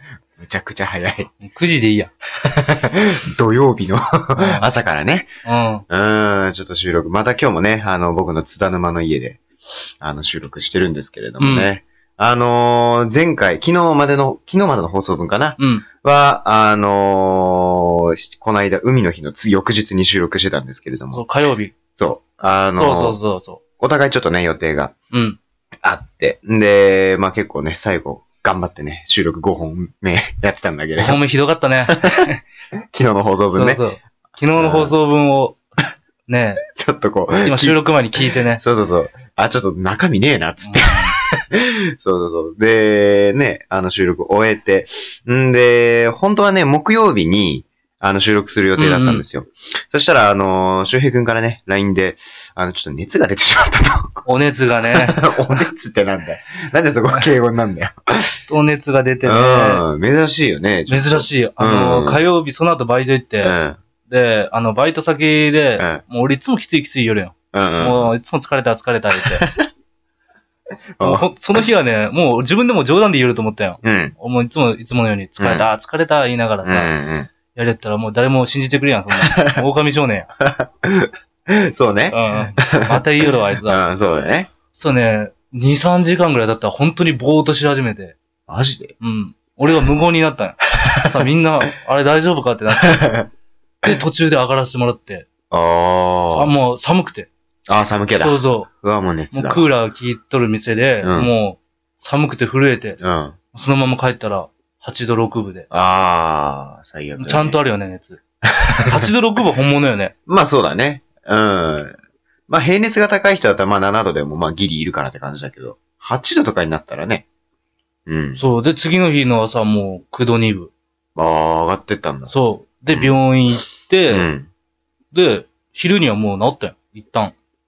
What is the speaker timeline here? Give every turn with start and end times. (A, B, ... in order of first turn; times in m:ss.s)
0:00.4-0:01.3 A
0:01.4-0:02.1 B
0:02.4-0:05.3 A
0:04.4-0:04.6 B
0:05.4-0:05.8 B
0:05.9-0:09.4 A
0:10.0-0:21.2 A
0:11.4-0:11.7 B
0:15.6-0:15.8 B
0:21.1-0:21.8 B
0:22.0-0:23.2 A
0:22.8-0:23.6 B
0:23.8-0:24.9 A
0:25.1-0:25.4 B
0:25.8-0:31.2 A
0:31.0-0:32.4 B
0:31.9-0:32.3 A
0:32.9-0:33.8 A
0:33.5-0:35.7 B
0:34.6-0:35.0 A
0:36.3-0:36.7 B
0:36.7-0:54.2 A
0:37.4-0:38.6 B
0:40.6-0:41.2 B
0:48.8-0:49.2 B
0:54.2-0:55.2 B
0:54.9-0:58.4 A
0:58.5-0:59.8 B
0:59.2-1:02.2 A
1:00.9-1:09.4 B
1:03.4-1:03.8 A
1:07.5-1:08.1 A
1:09.2-1:09.6 A
1:11.0-1:11.3 A
1:11.0-1:16.9 B
1:13.8-1:14.2 A
1:15.4-1:15.7 A
1:16.6-1:17.3 A
1:17.5-1:20.3 B
1:19.1-1:19.6 A
1:20.4-1:23.1 A
1:22.1-1:23.8 B
1:23.6-1:24.5 A
1:24.7-1:28.2 B
1:28.5-1:29.0 A
1:29.0-1:33.1 B
1:32.8-1:33.3 A
1:33.8-1:35.3 B
1:35.5-1:36.5 A
1:36.3-1:37.3 B
1:37.7-1:39.7 A
1:38.2-1:38.7 B
1:39.3-1:43.0 B
1:41.0-1:41.3 A
1:43.0-1:43.4 A
1:43.5-1:45.7 B
1:45.7-1:47.6 A
1:47.2-1:48.2 B
1:48.5-1:49.1 A
1:48.9-1:50.1 B
1:50.3-1:52.0 A
1:52.5-1:57.3 A
1:58.1-1:58.4 A
1:58.4-2:00.7 B
2:01.2-2:02.3 A
2:02.3-2:04.3 B
2:04.1-2:04.5 A
2:05.1-2:07.4 B